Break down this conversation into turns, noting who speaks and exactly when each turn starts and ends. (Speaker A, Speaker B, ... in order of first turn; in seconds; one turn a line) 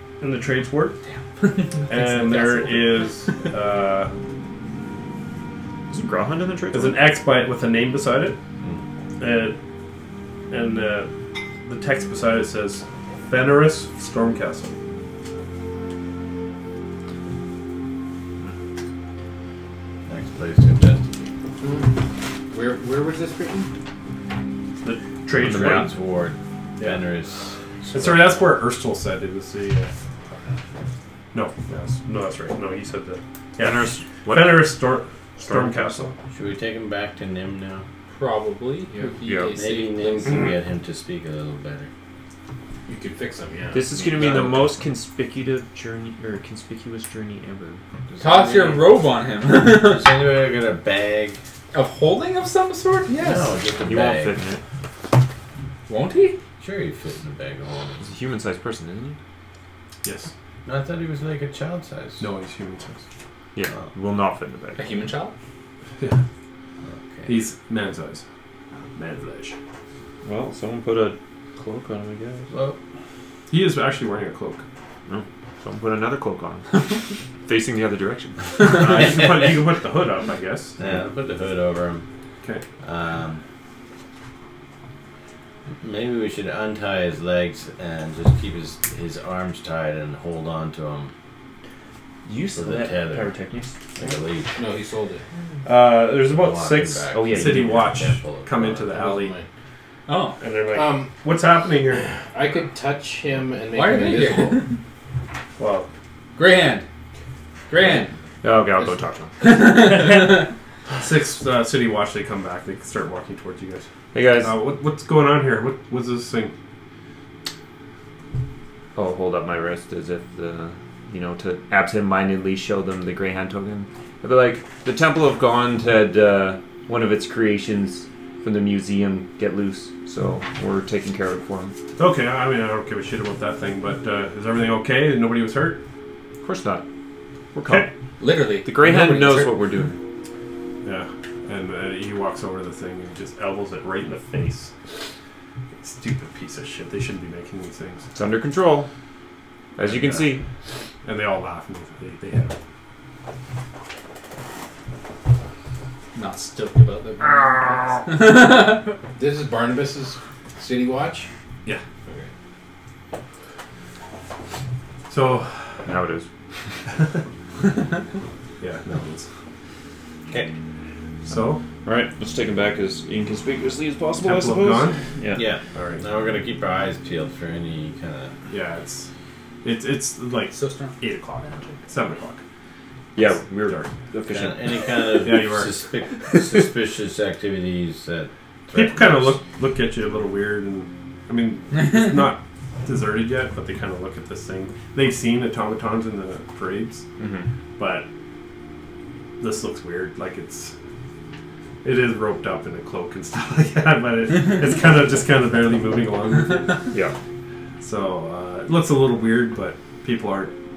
Speaker A: 0.2-0.9
Speaker B: 1.1-3.1
Speaker A: 1.9-4.1
Speaker C: 5.9-7.1
Speaker A: 6.7-8.4
Speaker A: 9.2-9.6
Speaker A: 10.5-11.1
Speaker A: 11.6-14.8
Speaker D: 20.1-21.3
Speaker E: 21.6-21.9
Speaker E: 22.5-23.7
Speaker A: 24.8-25.9
Speaker C: 25.4-25.9
Speaker D: 25.4-28.5
Speaker A: 26.8-27.0
Speaker A: 27.9-29.9
Speaker A: 31.3-36.1
Speaker C: 33.6-34.8
Speaker C: 35.4-36.1
Speaker D: 36.3-37.8
Speaker B: 38.1-40.3
Speaker C: 39.2-39.5
Speaker D: 39.5-41.9
Speaker E: 42.9-44.2
Speaker C: 43.7-47.8
Speaker D: 44.1-44.5
Speaker D: 48.1-48.4
Speaker B: 48.2-50.3
Speaker D: 49.7-51.4
Speaker B: 51.7-53.6
Speaker D: 53.1-54.4
Speaker C: 53.8-54.6
Speaker B: 55.9-56.4
Speaker D: 56.6-58.1
Speaker C: 58.0-59.2
Speaker A: 60.0-60.3
Speaker D: 60.6-62.3
Speaker A: 62.2-63.0
Speaker C: 63.5-65.1
Speaker B: 64.8-65.3
Speaker D: 66.8-67.4
Speaker A: 67.3-68.2
Speaker A: 68.9-69.5
Speaker C: 70.2-72.5
Speaker D: 72.5-72.8
Speaker A: 73.5-74.6
Speaker C: 75.1-76.9
Speaker C: 77.4-79.1
Speaker A: 78.7-80.8
Speaker D: 78.8-79.5
Speaker D: 80.8-82.0
Speaker D: 82.8-83.4
Speaker D: 85.8-91.1
Speaker C: 92.2-93.8
Speaker D: 92.5-93.3
Speaker D: 93.9-94.6
Speaker E: 94.5-95.2
Speaker A: 95.6-99.3
Speaker D: 96.1-99.1
Speaker C: 97.1-97.8
Speaker E: 98.9-99.5
Speaker B: 100.1-100.4
Speaker A: 100.4-102.1
Speaker E: 100.7-101.1
Speaker E: 102.2-104.6
Speaker B: 103.7-104.8
Speaker A: 105.6-105.9
Speaker B: 106.3-106.8
Speaker B: 107.7-108.1
Speaker C: 108.4-109.3
Speaker E: 108.8-109.1
Speaker B: 109.4-110.5
Speaker A: 111.0-113.9
Speaker C: 114.1-114.5
Speaker A: 114.4-116.5
Speaker C: 118.9-131.8
Speaker A: 132.0-135.8
Speaker C: 136.4-136.8
Speaker C: 137.5-137.9
Speaker B: 138.2-139.6
Speaker C: 138.6-140.0
Speaker A: 140.8-144.7
Speaker A: 145.8-148.1
Speaker C: 148.1-148.9
Speaker C: 149.8-150.4
Speaker A: 149.8-150.3
Speaker A: 151.0-152.6
Speaker B: 156.1-159.0
Speaker E: 159.2-161.3
Speaker A: 165.1-165.7
Speaker C: 165.8-166.3
Speaker A: 168.6-169.3
Speaker A: 171.2-171.6
Speaker C: 171.8-175.4
Speaker A: 174.2-175.0
Speaker D: 175.3-178.3
Speaker A: 175.7-176.0
Speaker A: 178.5-179.1
Speaker A: 179.6-182.4
Speaker B: 180.5-180.9
Speaker C: 183.1-184.9
Speaker A: 183.6-183.9
Speaker D: 184.3-189.4
Speaker A: 185.2-185.8
Speaker A: 188.7-197.1
Speaker C: 197.2-197.5
Speaker A: 197.8-198.1
Speaker A: 199.4-200.7
Speaker A: 201.8-206.9
Speaker A: 207.8-210.5